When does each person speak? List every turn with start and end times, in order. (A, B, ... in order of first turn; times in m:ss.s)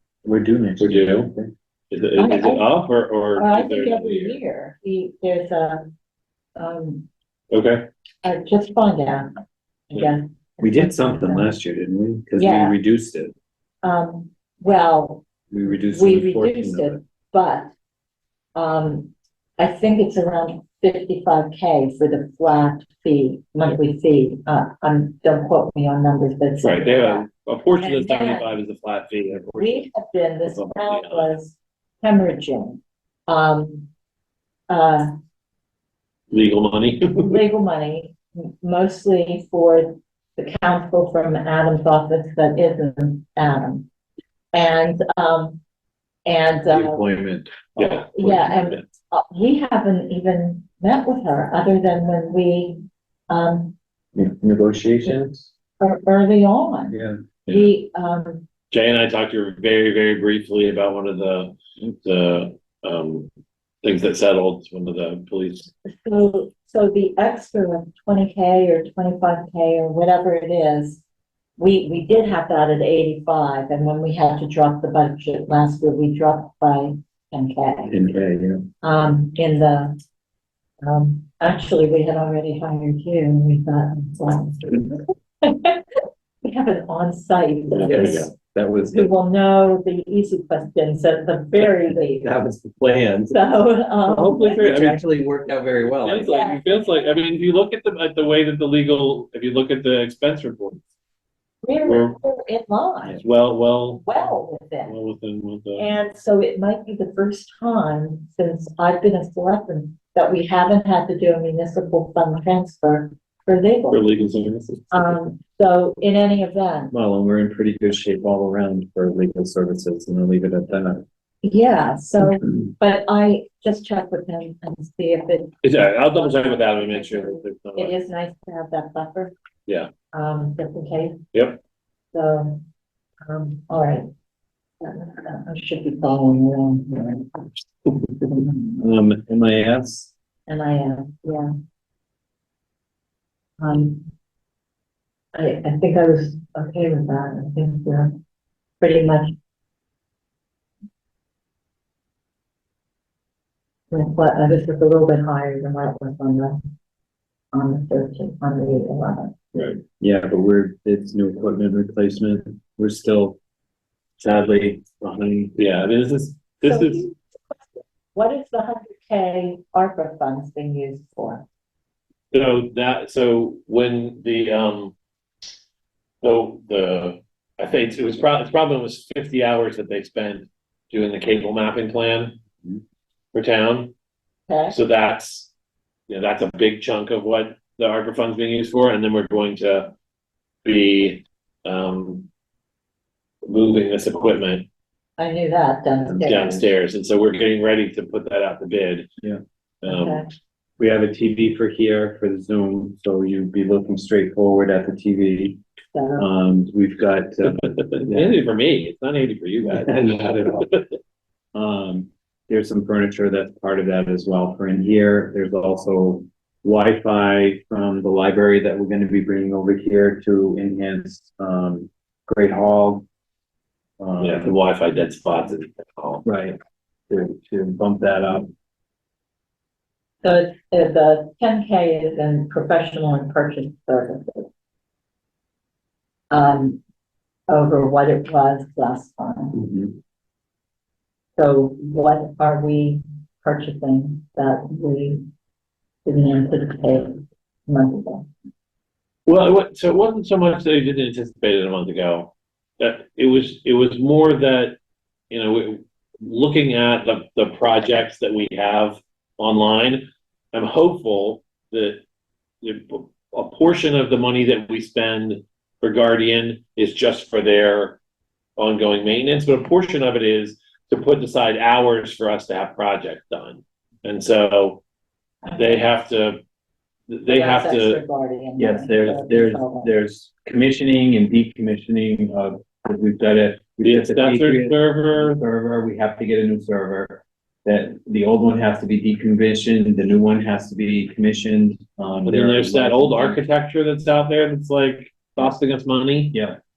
0:00.2-0:01.5 A
0:00.8-0:01.3 B
0:01.9-0:04.4 B
0:02.2-0:02.7 C
0:03.4-0:05.9 C
0:06.6-0:07.1 C
0:07.5-0:07.9 B
0:08.2-0:09.3 C
0:09.9-0:11.6 C
0:10.6-0:13.3 A
0:12.4-0:12.8 C
0:13.8-0:17.7 C
0:15.5-0:17.0 A
0:18.5-0:27.3 C
0:26.6-0:29.9 B
0:27.8-0:28.6 C
0:29.6-0:33.9 C
0:30.4-0:31.3 B
0:34.7-0:35.1 C
0:36.3-0:37.4 B
0:37.2-0:43.9 C
0:44.5-0:45.6 C
0:46.2-0:47.1 C
0:46.7-0:48.6 A
0:47.8-0:48.8 B
0:48.1-0:53.7 C
0:54.1-0:55.5 A
0:55.8-0:58.4 C
0:56.9-0:57.2 A
0:58.7-1:03.3 B
1:03.8-1:05.7 B
1:06.0-1:11.0 C
1:11.6-1:17.9 C
1:17.9-1:18.6 A
1:18.8-1:20.0 C
1:20.8-1:28.3 C
1:27.7-1:29.1 A
1:27.7-1:28.3 B
1:28.9-1:32.3 C
1:32.2-1:33.4 A
1:33.3-1:34.8 C
1:34.1-1:35.0 B
1:34.5-1:36.3 A
1:36.0-1:40.8 B
1:36.2-1:37.2 C
1:41.6-1:43.2 C
1:41.8-1:42.2 B
1:43.2-1:44.2 B
1:44.0-1:45.0 C
1:44.8-1:46.0 B
1:45.8-1:54.2 C
1:53.9-1:55.3 B
1:54.9-1:56.9 C
1:56.9-2:01.0 A
2:01.4-2:09.3 C
2:05.6-2:07.9 B
2:10.1-2:11.2 C
2:11.3-2:11.6 B
2:12.1-2:12.6 C
2:13.2-2:14.1 C
2:14.8-2:17.4 C
2:18.3-2:18.8 C
2:18.8-2:20.1 A
2:20.5-2:21.5 C
2:23.6-2:24.0 C
2:25.3-2:28.2 C
2:28.8-2:29.3 C
2:33.9-2:36.6 C
2:37.5-2:39.3 C
2:39.5-2:39.8 B
2:40.0-2:43.4 A
2:44.2-2:45.5 A
2:45.6-2:47.1 B
2:46.6-2:51.4 C
2:52.3-2:54.9 B
2:56.2-3:02.4 B
3:03.3-3:03.9 B
3:04.5-3:04.8 C
3:04.7-3:05.5 B
3:06.1-3:09.9 B
3:10.6-3:12.3 B
3:13.5-3:14.7 B
3:15.2-3:16.7 C
3:16.1-3:19.1 B
3:19.8-3:20.2 B
3:19.9-3:20.3 C
3:20.8-3:25.6 A
3:25.9-3:26.3 C
3:26.2-3:28.4 A
3:27.4-3:30.9 B
3:29.6-3:30.7 A
3:31.5-3:43.0 A
3:44.0-3:44.5 A
3:44.2-3:46.2 B
3:46.2-3:46.6 A
3:47.1-3:48.5 A
3:50.2-3:54.5 C
3:56.3-3:56.8 C
3:57.5-3:59.7 C
4:01.4-4:05.2 C
4:06.0-4:08.3 C
4:09.2-4:14.8 B
4:15.3-4:22.0 B
4:22.6-4:28.0 B
4:28.6-4:34.8 B
4:35.4-4:35.9 C
4:35.6-4:36.4 B
4:37.1-4:38.0 B
4:37.3-4:39.9 C
4:38.6-4:53.4 A
4:43.8-4:45.4 B
4:52.2-4:56.4 B
4:56.3-4:56.6 A